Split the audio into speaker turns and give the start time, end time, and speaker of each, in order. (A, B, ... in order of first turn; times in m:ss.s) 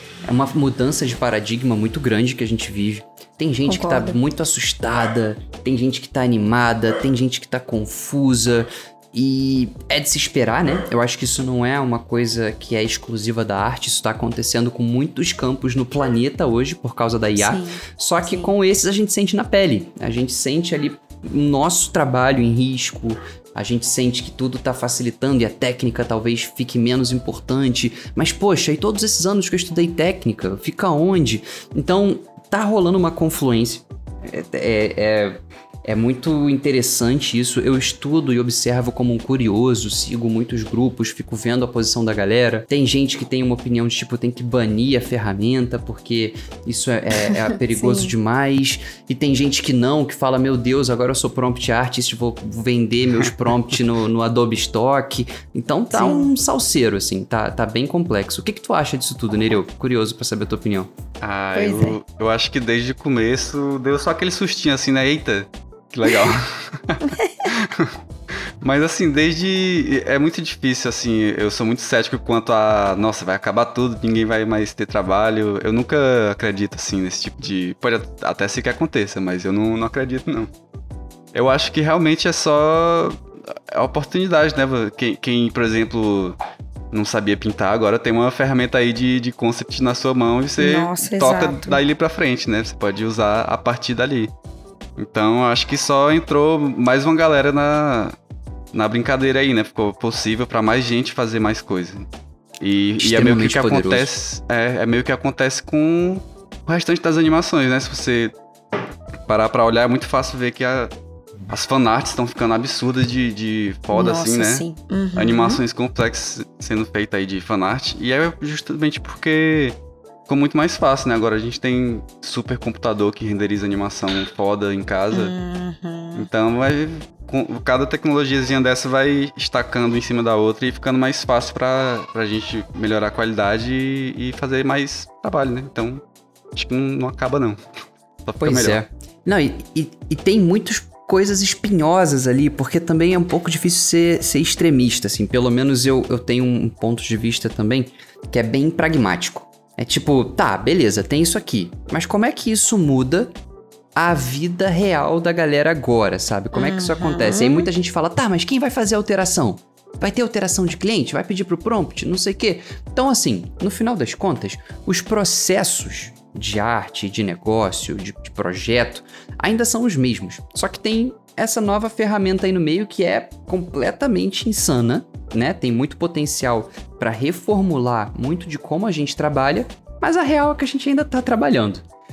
0:00.2-1:00.9 A
0:03.6-0:04.2 B
0:17.4-0:18.5 B
0:47.2-0:48.1 B
0:55.9-0:56.3 B
1:01.2-1:07.9 C
1:01.6-1:02.0 B
1:07.0-1:07.4 B
1:08.6-1:20.5 C
1:21.3-1:23.2 C
1:23.7-1:26.4 C
1:26.9-1:34.3 C
1:30.6-1:31.8 B
1:35.0-1:38.1 C
1:38.7-1:42.0 C
1:42.6-1:48.3 C
1:43.0-1:44.1 A
1:49.3-1:50.9 C
1:51.5-1:54.6 C
1:53.9-1:55.6 B
1:55.2-1:59.8 C
2:00.3-2:05.3 C
2:05.1-2:06.3 B
2:06.2-2:16.0 C
2:16.6-2:17.6 C
2:18.2-2:18.8 C
2:18.4-2:33.3 A
2:34.0-3:01.8 A
2:36.5-2:37.7 B